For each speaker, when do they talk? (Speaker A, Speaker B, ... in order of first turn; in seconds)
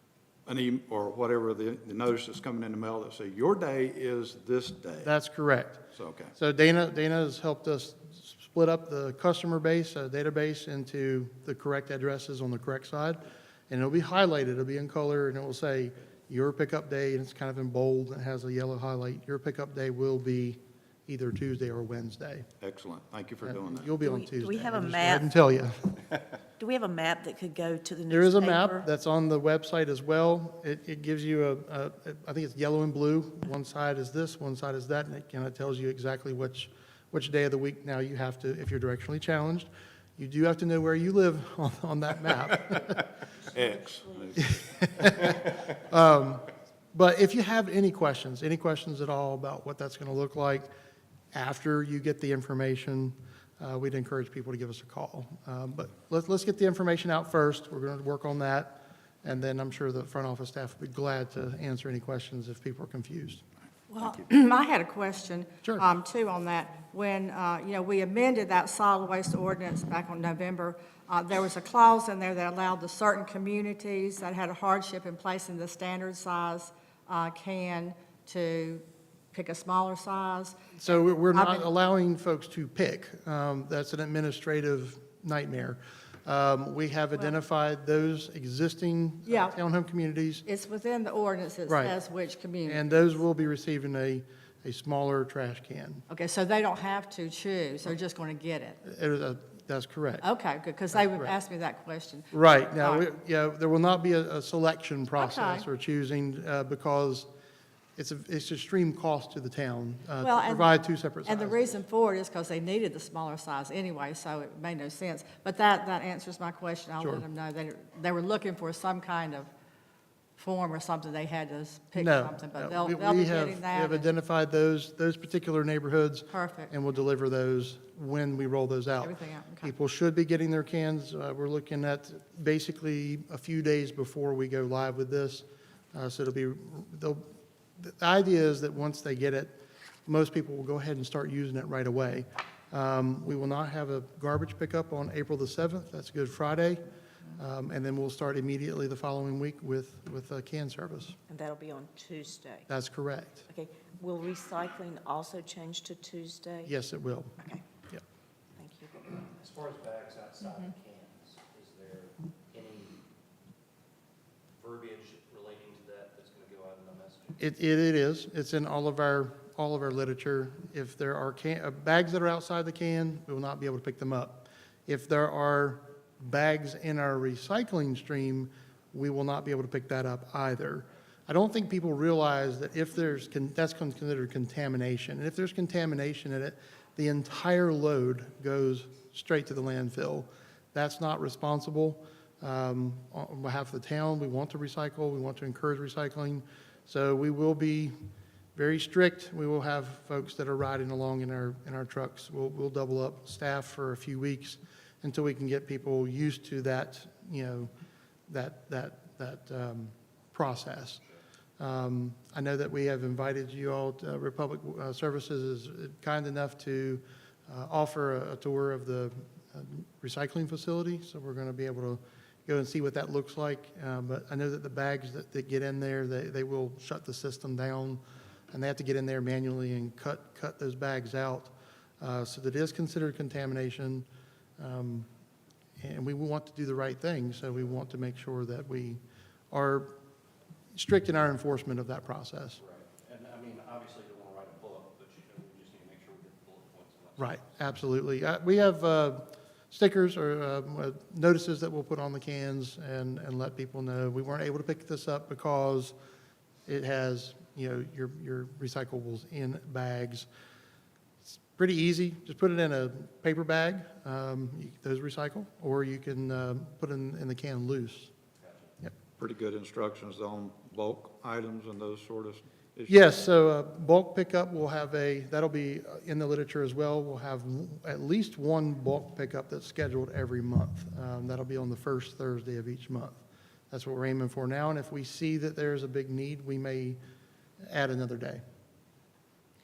Speaker A: 0.5-5.1, 5.9-6.3, 22.6-23.9, 43.4-45.4, 269.2-273.0
Speaker B: 5.0-5.8, 6.3-22.4, 23.4-26.0, 28.1-43.1, 44.4-50.7, 51.3-63.4, 80.8-90.4, 91.7-91.9, 92.7-96.0, 98.8-100.2, 100.9-101.3, 102.3-107.3, 108.0-111.7, 122.0-137.2, 137.8-146.8, 147.3-151.2, 152.7-153.4, 156.7-157.3, 167.4-197.9, 198.5-207.7, 208.3-211.0, 211.6-234.1, 234.6-235.1, 235.8-239.0, 239.5-239.9, 240.7-242.6, 247.2-255.9, 256.6-260.3, 261.5-268.1, 272.9-287.0, 287.6-288.4
Speaker C: 24.0-25.3, 26.6-28.9, 151.3-152.7, 153.5-156.7, 158.6-159.0
Speaker D: 63.9-80.7, 81.3-81.7, 89.3-89.5, 90.4-93.1, 96.1-98.8, 100.2-103.0, 105.2-105.7, 110.2-110.7, 111.2-119.5, 120.4-124.1, 126.3-126.7, 129.0-129.7
Speaker E: 159.2-163.0, 164.6-167.4, 242.6-247.4